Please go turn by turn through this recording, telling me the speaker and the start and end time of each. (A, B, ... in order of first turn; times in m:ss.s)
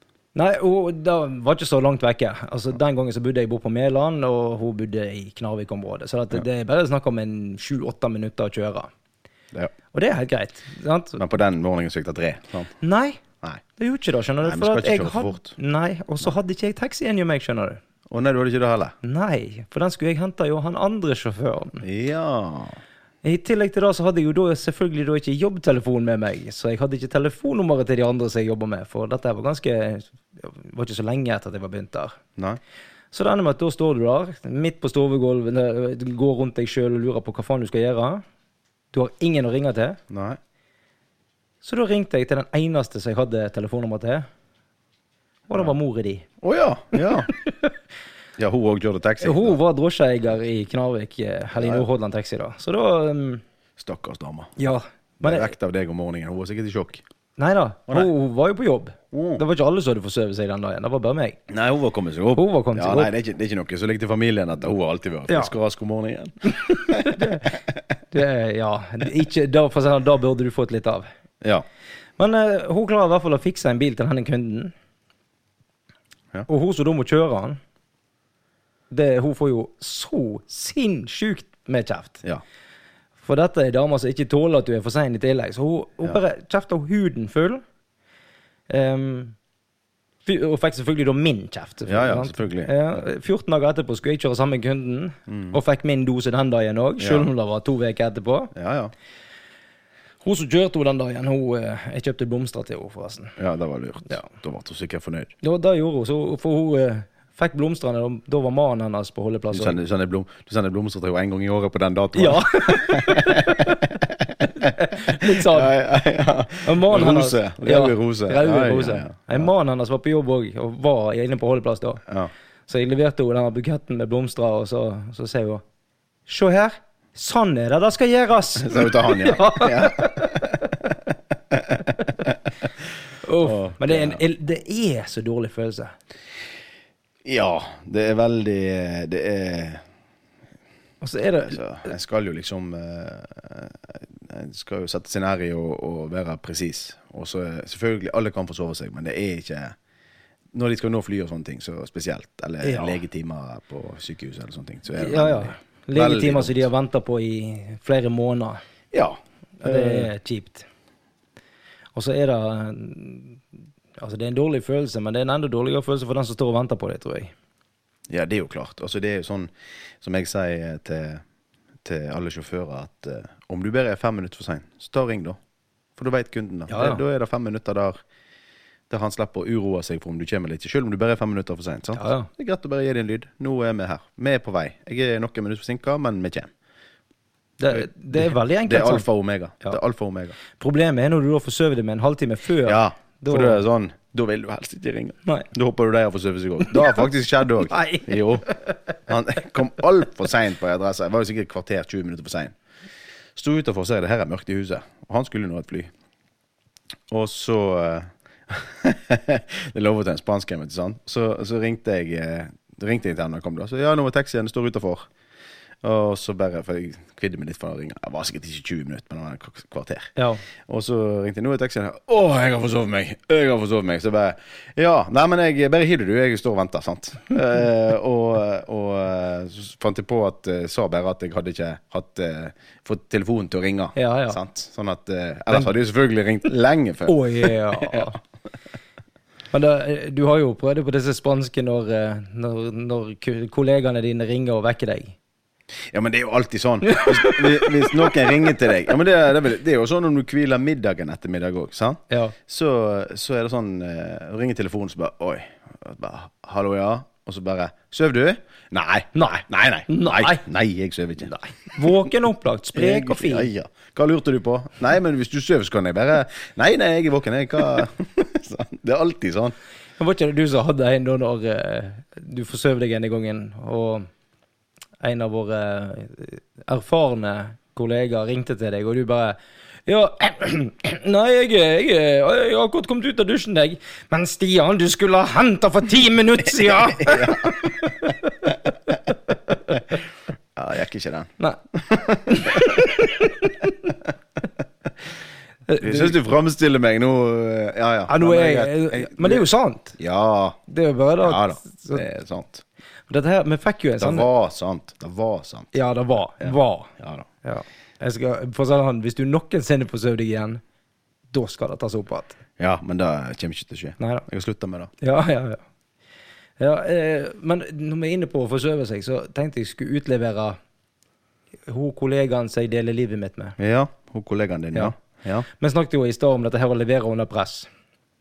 0:00.3-0:08.9 A
0:09.9-0:11.2 A
0:11.2-0:12.7 B
0:12.8-0:13.2 A
0:13.8-0:17.8 A
0:14.4-0:15.5 B
0:18.1-0:18.9 B
0:19.0-0:21.8 A
0:21.8-0:22.8 B
0:23.2-0:32.2 A
0:33.1-0:38.2 A
0:38.9-0:40.0 A
0:40.1-0:40.4 B
0:41.6-0:44.2 A
0:45.5-0:46.2 A
0:46.4-0:47.3 B
0:47.0-0:47.7 A
0:48.4-0:49.6 B
0:49.2-0:53.4 A
0:51.5-0:51.8 B
0:53.8-0:54.5 B
0:54.6-0:55.5 A
0:55.2-0:57.0 B
0:57.4-1:01.4 A
0:59.1-0:59.4 B
1:01.5-1:07.6 B
1:02.3-1:03.1 A
1:06.5-1:07.6 A
1:08.1-1:11.1 A
1:12.2-1:14.7 A
1:16.5-1:17.6 A
1:18.9-1:22.2 A
1:23.2-1:27.6 A
1:28.7-1:29.3 A
1:30.2-1:38.5 A
1:31.9-1:32.7 B
1:35.3-1:35.6 B
1:37.0-1:37.3 B
1:38.5-1:38.9 B
1:40.2-1:43.4 A
1:43.4-1:45.3 B
1:45.4-1:49.8 A
1:49.5-1:59.5 B
1:52.1-1:53.8 A
1:54.5-1:55.7 A
1:56.6-2:02.0 A
2:02.7-2:05.6 A
2:06.3-2:10.6 A
2:08.6-2:12.4 B
2:13.2-2:15.9 A
2:13.4-2:14.2 B
2:17.2-2:19.8 B
2:21.0-2:21.6 A
2:21.5-2:29.7 B
2:30.5-2:36.7 B
2:32.6-2:33.0 A
2:35.0-2:38.6 A
2:38.9-2:40.1 B
2:39.6-2:40.6 A
2:41.9-2:43.4 A
2:44.0-2:47.3 A
2:48.1-2:51.2 B
2:51.8-2:55.4 B
2:56.0-2:58.0 B
2:56.7-2:57.0 A
2:58.9-3:06.5 B
3:01.9-3:02.3 A
3:07.6-3:09.0 A
3:07.7-3:10.4 B
3:10.6-3:13.6 A
3:12.6-3:18.5 B
3:16.7-3:17.0 A
3:17.7-3:18.7 A
3:19.1-3:22.5 B
3:23.4-3:25.9 B
3:27.1-3:35.0 B
3:35.8-3:58.1 B
3:40.2-3:40.4 A
3:53.9-3:54.4 A
3:57.1-3:58.2 A
3:59.5-4:05.2 A
4:05.9-4:21.9 B
4:06.8-4:08.2 A
4:12.1-4:12.3 A
4:19.1-4:20.4 A
4:21.2-4:23.5 A
4:22.7-4:29.5 B
4:30.0-4:34.1 A
4:35.0-4:49.8 A
4:46.8-4:47.9 B
4:50.6-4:53.1 B
4:52.2-4:53.9 A
4:55.7-4:56.2 A
4:55.8-4:59.4 B
4:58.1-5:00.0 A
5:00.0-5:00.6 B
5:00.7-5:02.0 A
5:01.2-5:02.6 B
5:03.1-5:04.3 A
5:04.0-5:05.7 B
5:05.7-5:06.9 A
5:06.4-5:07.3 B
5:07.4-5:10.6 A
5:11.3-5:12.4 A
5:12.6-5:14.9 B
5:14.0-5:14.2 A
5:15.0-5:15.6 A
5:16.6-5:20.6 A
5:21.7-5:23.6 A
5:23.6-5:25.4 B
5:25.5-5:27.7 A